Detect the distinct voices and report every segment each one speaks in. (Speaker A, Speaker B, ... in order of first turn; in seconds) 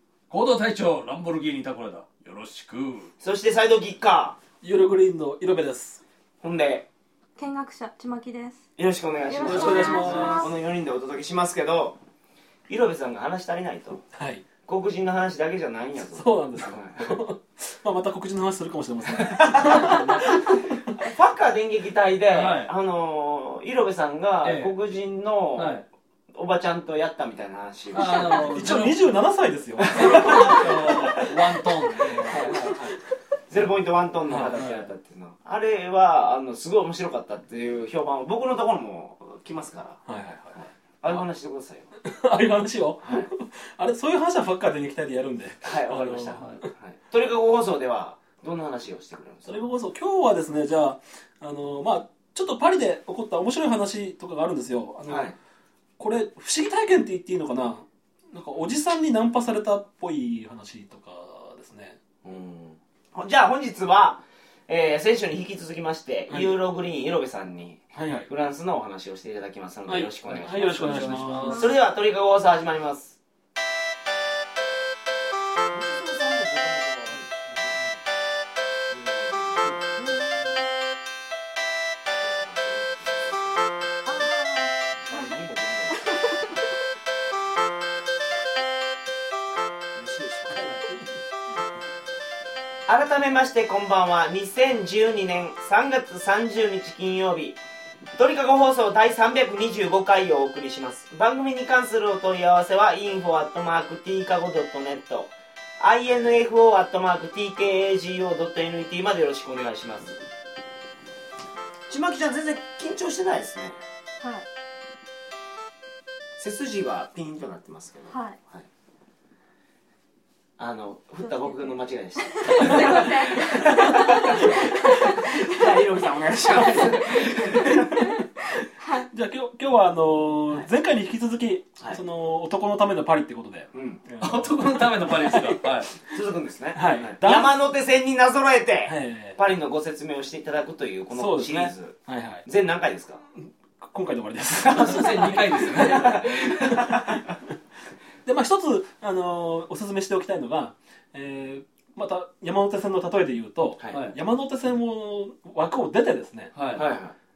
Speaker A: 0.3-3.1, 9.9-10.4, 19.7-20.0, 22.3-22.7, 24.4-24.8, 25.6-25.9, 27.9-29.1, 29.9-32.4, 34.3-34.9, 70.2-71.7, 134.2-135.9, 153.9-154.2, 156.5-156.8
Speaker B: 3.2-4.4, 6.4-6.9, 8.8-12.0, 12.7-14.0, 14.6-17.2, 19.2-28.7, 29.8-31.3, 32.0-40.0, 40.5-41.9, 43.0-43.3, 45.6-49.6, 55.1-55.4, 62.2-73.2, 75.7-77.8, 78.9-79.8, 82.2-83.7, 85.0-86.1, 90.0-90.7, 92.9-97.6, 98.2-110.2, 111.9-113.8, 116.4-118.6, 120.6-128.1, 133.7-134.0, 136.0-143.2, 144.6-147.3, 156.7-157.2
Speaker C: 4.6-6.0, 9.4-10.5, 14.1-14.4, 16.0-20.9, 28.4-31.2, 32.0-32.8, 40.0-41.2, 42.0-46.6, 49.4-55.3, 56.0-62.0, 66.3-66.6, 67.9-68.3, 69.8-71.7, 90.5-91.2, 122.7-125.3, 126.5-128.2, 129.1-135.6, 136.7-137.6, 138.8-139.4, 141.1-142.4, 143.3-147.3, 148.2-156.5
Speaker D: 7.4-8.6, 9.3-10.5, 71.5-71.7, 80.0-80.3, 84.0-85.2, 114.2-114.5, 118.1-118.4, 121.2-121.8, 122.3-125.8, 128.8-129.1